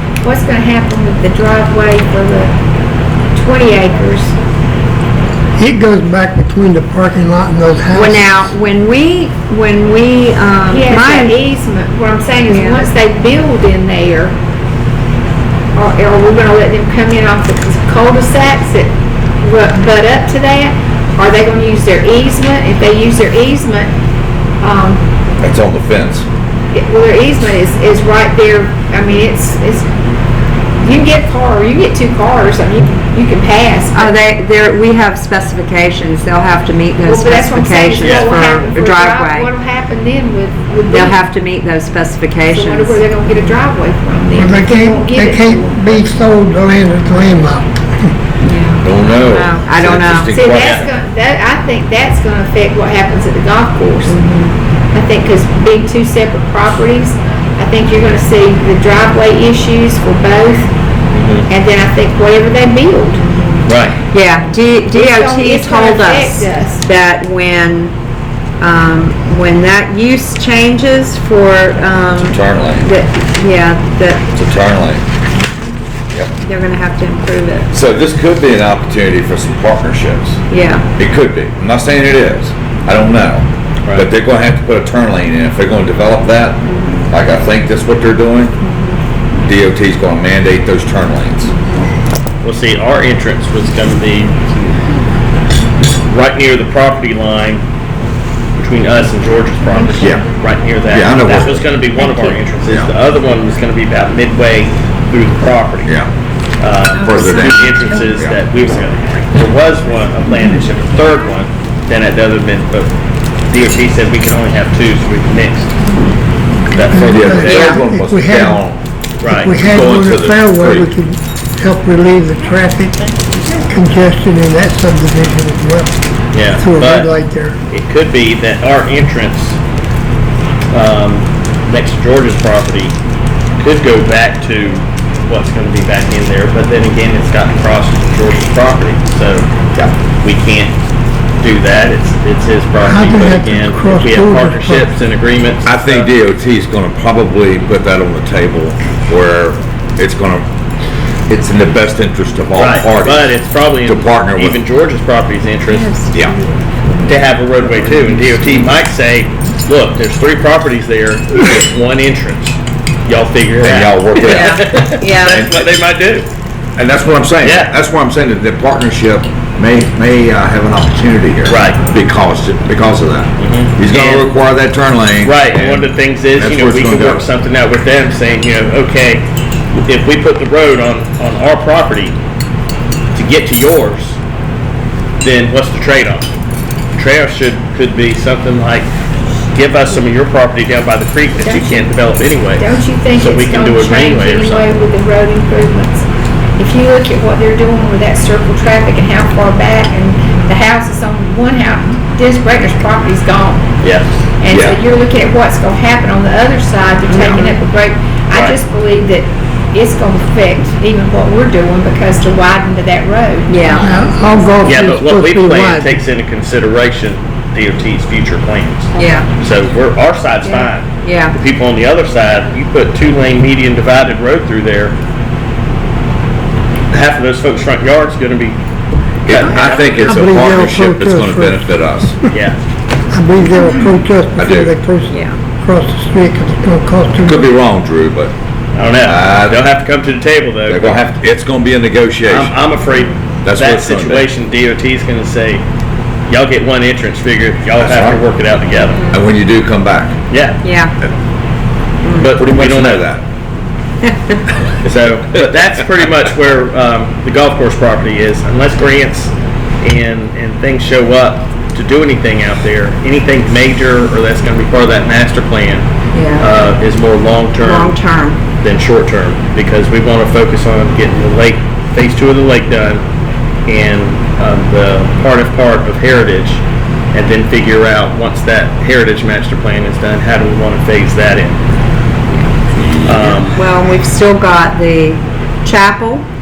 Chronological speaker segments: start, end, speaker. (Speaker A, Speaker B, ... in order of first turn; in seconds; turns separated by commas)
Speaker A: 0.2-2.5, Speaker A: 3.4-4.3, Speaker B: 5.6-8.5, Speaker C: 7.9-11.4, Speaker A: 10.7-14.3, Speaker C: 12.5-12.8, Speaker A: 15.8-23.9, Speaker A: 24.6-25.0, Speaker D: 25.4-26.2, Speaker A: 26.7-29.9, Speaker A: 30.8-34.1, Speaker C: 33.9-39.5, Speaker A: 37.0-41.3, Speaker E: 38.0-38.3, Speaker C: 40.9-43.5, Speaker A: 42.5-46.1, Speaker B: 44.3-48.1, Speaker C: 48.4-50.3, Speaker D: 48.8-50.9, Speaker A: 50.3-54.2, Speaker E: 50.6-50.9, Speaker C: 54.0-54.5, Speaker A: 54.9-60.7, Speaker E: 61.1-61.5, Speaker A: 61.5-63.2, Speaker C: 63.1-67.9, Speaker E: 63.6-64.0, Speaker A: 64.9-66.8, Speaker C: 68.6-74.2, Speaker D: 72.2-72.8, Speaker D: 74.3-75.0, Speaker C: 76.4-77.7, Speaker D: 77.7-80.4, Speaker C: 80.5-80.9, Speaker D: 81.0-88.5, Speaker C: 86.6-87.1, Speaker C: 88.6-89.0, Speaker D: 89.4-91.5, Speaker C: 91.5-91.9, Speaker E: 92.4-94.3, Speaker E: 96.1-97.6, Speaker E: 98.6-105.9, Speaker D: 100.9-101.7, Speaker C: 102.0-102.3, Speaker D: 105.8-106.1, Speaker E: 106.6-112.9, Speaker D: 107.0-108.4, Speaker C: 107.0-108.0, Speaker E: 113.5-115.7, Speaker E: 116.7-117.8, Speaker B: 116.9-118.6, Speaker D: 117.1-118.8, Speaker C: 117.5-117.8, Speaker E: 119.2-119.6, Speaker B: 119.3-125.9, Speaker D: 119.6-120.9, Speaker E: 126.3-127.1, Speaker B: 126.6-127.6, Speaker E: 127.7-129.6, Speaker E: 130.7-132.9, Speaker E: 133.6-139.7, Speaker E: 140.2-140.7, Speaker E: 141.4-146.1, Speaker B: 142.8-144.9, Speaker D: 145.6-150.4, Speaker D: 151.3-153.3, Speaker E: 152.6-155.9, Speaker D: 153.8-154.6, Speaker C: 155.6-156.6, Speaker E: 157.0-166.3, Speaker D: 163.6-165.7, Speaker C: 164.2-165.4, Speaker D: 166.8-177.2, Speaker E: 167.4-167.7, Speaker E: 171.5-171.8, Speaker E: 173.4-174.4, Speaker E: 175.2-182.2, Speaker E: 183.1-184.2, Speaker E: 185.2-186.3, Speaker E: 186.9-188.9, Speaker E: 189.5-194.7, Speaker A: 191.4-191.9, Speaker A: 192.6-196.0, Speaker A: 196.6-203.7, Speaker A: 204.4-214.6, Speaker D: 204.5-204.8, Speaker C: 207.1-207.6, Speaker C: 213.5-213.9, Speaker B: 213.7-216.0, Speaker E: 214.6-225.0, Speaker C: 218.9-219.3, Speaker A: 220.4-220.7, Speaker C: 221.0-221.3, Speaker E: 226.9-228.6, Speaker D: 229.2-232.2, Speaker E: 229.3-230.2, Speaker C: 229.4-229.7, Speaker B: 229.8-231.6, Speaker E: 232.3-232.6, Speaker B: 233.1-237.5, Speaker D: 234.3-234.8, Speaker C: 235.1-235.4, Speaker D: 237.2-238.3, Speaker E: 238.7-241.1, Speaker D: 239.1-239.6, Speaker D: 240.7-242.6, Speaker E: 242.2-245.6, Speaker C: 242.8-243.1, Speaker D: 243.4-244.3, Speaker E: 246.3-249.0, Speaker D: 247.8-248.2, Speaker C: 248.8-249.2, Speaker D: 249.1-250.2, Speaker E: 250.3-250.6, Speaker C: 250.6-250.9, Speaker C: 252.0-252.4, Speaker E: 252.2-253.1, Speaker D: 252.3-253.2, Speaker C: 254.0-254.4, Speaker E: 254.8-268.0, Speaker C: 266.1-266.5, Speaker C: 267.6-268.4, Speaker E: 268.6-273.0, Speaker E: 273.7-276.6, Speaker E: 277.1-281.6, Speaker D: 282.7-283.4, Speaker E: 283.0-283.6, Speaker C: 283.5-286.3